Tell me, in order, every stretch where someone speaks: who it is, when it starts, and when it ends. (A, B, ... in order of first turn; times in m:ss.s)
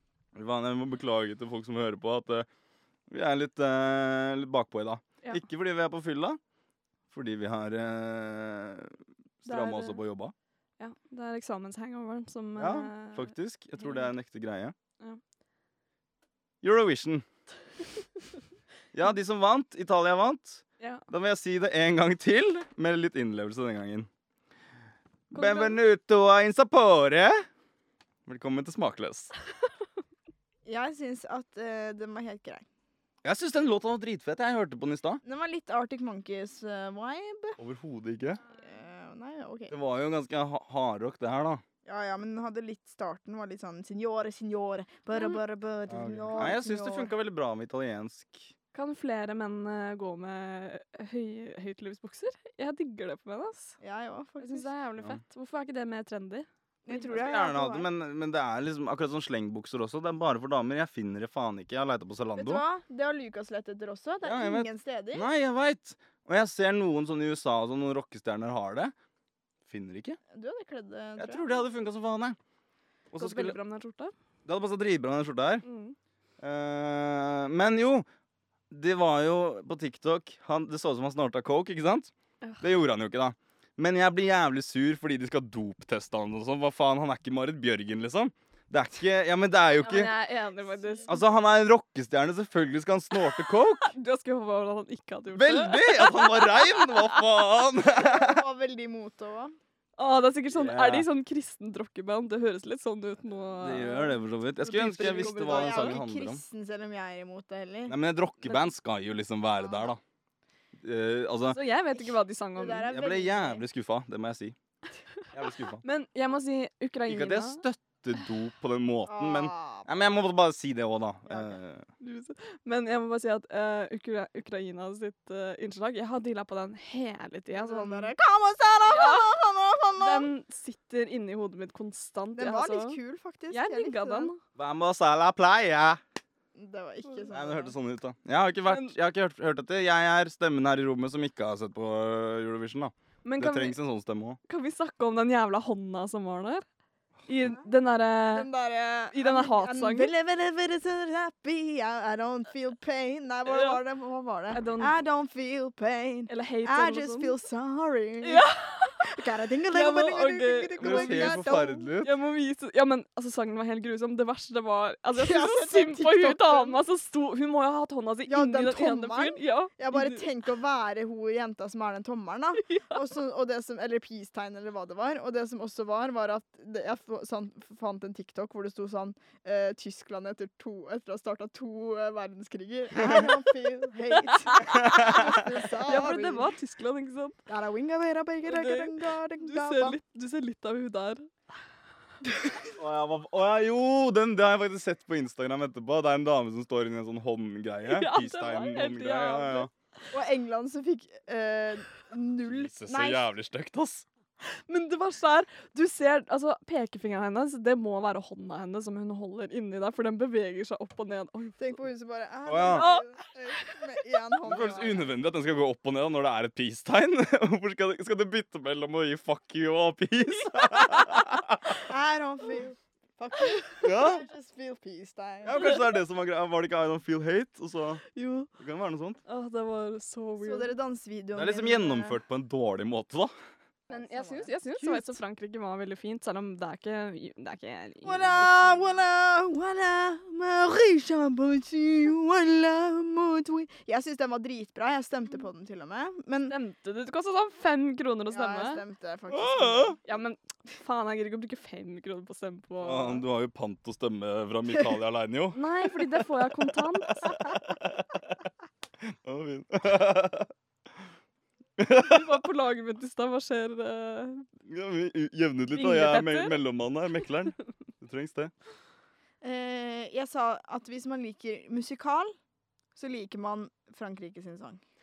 0:00.3-0:02.5 A
0:03.1-0:06.4 A
0:07.1-0:10.3 A
0:09.4-0:10.0 B
0:10.8-0:14.1 B
0:12.6-0:14.7 A
0:16.6-0:17.2 A
0:18.9-0:24.1 A
0:25.3-0:25.8 B
0:25.3-0:27.5 A
0:28.2-0:29.3 A
0:30.6-0:32.6 C
0:33.2-0:35.2 A
0:35.2-0:37.6 C
0:37.6-0:38.4 A
0:38.6-0:39.7 C
0:39.7-0:41.6 A
0:41.8-0:47.1 C
0:45.1-0:45.4 B
0:45.9-0:48.5 A
0:48.7-0:53.8 B
0:53.8-0:54.7 C
0:54.4-0:57.0 B
0:56.8-0:57.9 C
0:56.9-1:02.6 A
1:02.4-1:05.3 C
1:04.2-1:08.9 A
1:09.6-1:10.2 A
1:10.3-1:11.6 C
1:11.2-1:12.4 A
1:13.1-1:13.6 A
1:13.1-1:14.1 B
1:14.4-1:15.6 A
1:15.6-1:16.0 B
1:16.4-1:18.0 A
1:18.7-1:30.1 A
1:29.8-1:31.2 B
1:30.8-1:31.1 C
1:31.1-1:33.9 A
1:33.8-1:37.2 B
1:35.3-1:38.4 A
1:37.9-1:39.6 C
1:40.0-1:46.0 B
1:40.5-1:41.1 A
1:43.6-1:46.4 A
1:44.8-1:48.0 C
1:47.9-1:50.0 A
1:48.4-1:48.7 B
1:50.8-1:51.6 A
1:51.5-1:52.9 B
1:52.6-1:53.6 C
1:52.8-1:54.6 A
1:55.3-1:55.8 A
1:55.8-1:57.6 B
1:57.1-2:01.8 A
1:59.1-1:59.9 C
2:01.3-2:01.6 C
2:02.0-2:08.1 B
2:07.5-2:10.3 C
2:08.8-2:09.3 B
2:10.0-2:13.0 B
2:12.3-2:14.3 C
2:13.5-2:14.4 B
2:14.5-2:16.0 A
2:16.5-2:17.7 C
2:17.3-2:24.4 A
2:18.7-2:18.9 B
2:23.2-2:23.8 B
2:24.5-2:26.6 B
2:27.3-2:28.5 B
2:28.3-2:41.9 C
2:29.1-2:30.1 B
2:33.4-2:33.8 B
2:34.5-2:35.0 B
2:36.3-2:37.4 B
2:38.2-2:39.1 B
2:39.7-2:50.3 B
2:40.8-2:42.1 A
2:45.1-2:46.8 C
2:48.3-3:06.5 C
2:52.6-2:53.0 B
3:03.0-3:03.3 A
3:04.3-3:07.4 B
3:04.7-3:05.3 A
3:07.5-3:10.0 C
3:08.4-3:11.3 B
3:12.8-3:19.7 A
3:17.8-3:19.7 B
3:20.1-3:23.3 C
3:22.4-3:24.0 A
3:24.4-3:31.7 B
3:31.6-3:35.0 C
3:32.4-3:32.9 A
3:32.6-3:33.8 B
3:34.4-3:41.8 A
3:41.8-3:45.8 C
3:43.8-3:44.2 A
3:45.4-3:48.0 A
3:48.1-3:48.5 B
3:48.6-3:49.2 A
3:49.2-3:50.7 B
3:50.4-3:52.2 C
3:51.3-3:53.3 A
3:53.9-3:54.5 C
3:53.9-3:59.0 B
3:54.8-3:55.1 A
3:58.0-4:06.6 C
4:06.5-4:08.8 B
4:08.3-4:10.0 C
4:09.3-4:10.0 A
4:10.0-4:13.2 B
4:12.8-4:18.4 A
4:15.5-4:17.3 B
4:19.0-4:20.5 A
4:21.8-4:22.3 A
4:21.9-4:24.5 B
4:24.7-4:28.5 A
4:25.7-4:26.6 B
4:29.4-4:32.4 C
4:32.9-4:34.8 C